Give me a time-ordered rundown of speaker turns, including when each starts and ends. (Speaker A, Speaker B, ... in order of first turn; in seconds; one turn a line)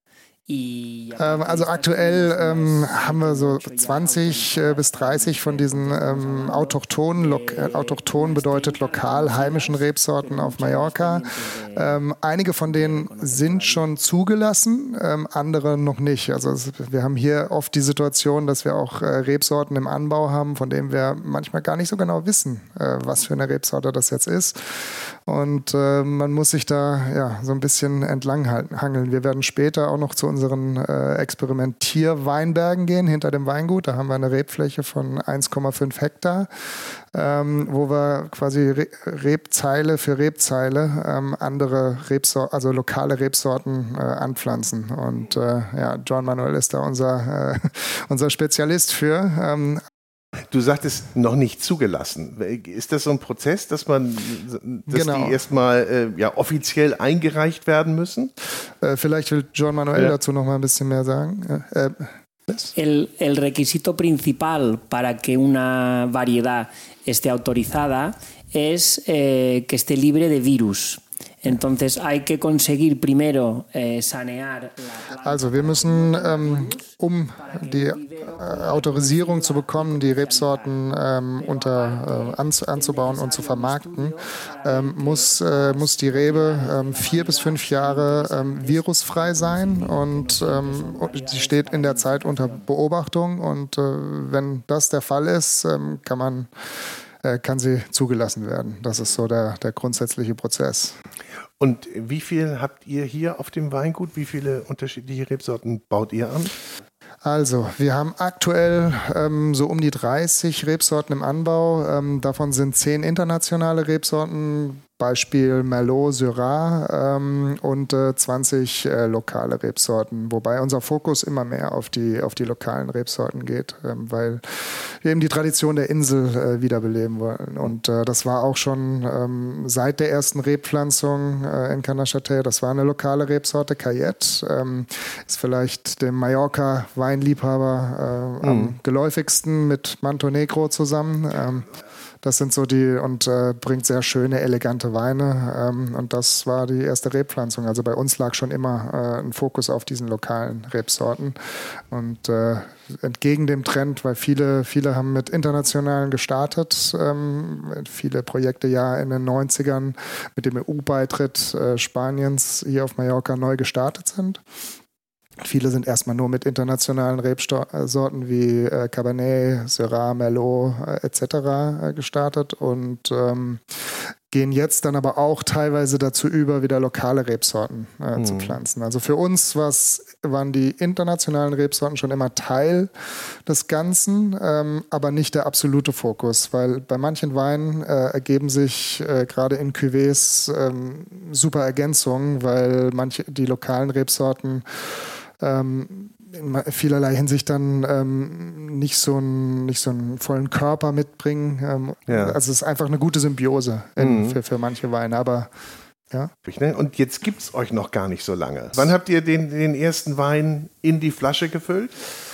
Speaker A: 0.5-12.0
Speaker B: 1.2-36.5
Speaker A: 12.6-13.8
Speaker B: 37.1-49.8
Speaker C: 50.5-58.3
Speaker B: 54.9-55.4
Speaker B: 58.8-62.7
Speaker A: 62.7-92.6
Speaker B: 75.2-96.5
Speaker B: 97.2-101.0
Speaker C: 101.6-106.5
Speaker B: 107.2-141.7
Speaker C: 138.4-138.8
Speaker B: 142.2-151.4
Speaker B: 151.9-164.4
Speaker B: 165.4-173.8
Speaker B: 174.3-182.9
Speaker C: 178.1-178.6
Speaker B: 183.4-194.8
Speaker B: 195.4-205.5
Speaker C: 202.1-202.4
Speaker C: 204.0-204.4
Speaker C: 206.4-211.9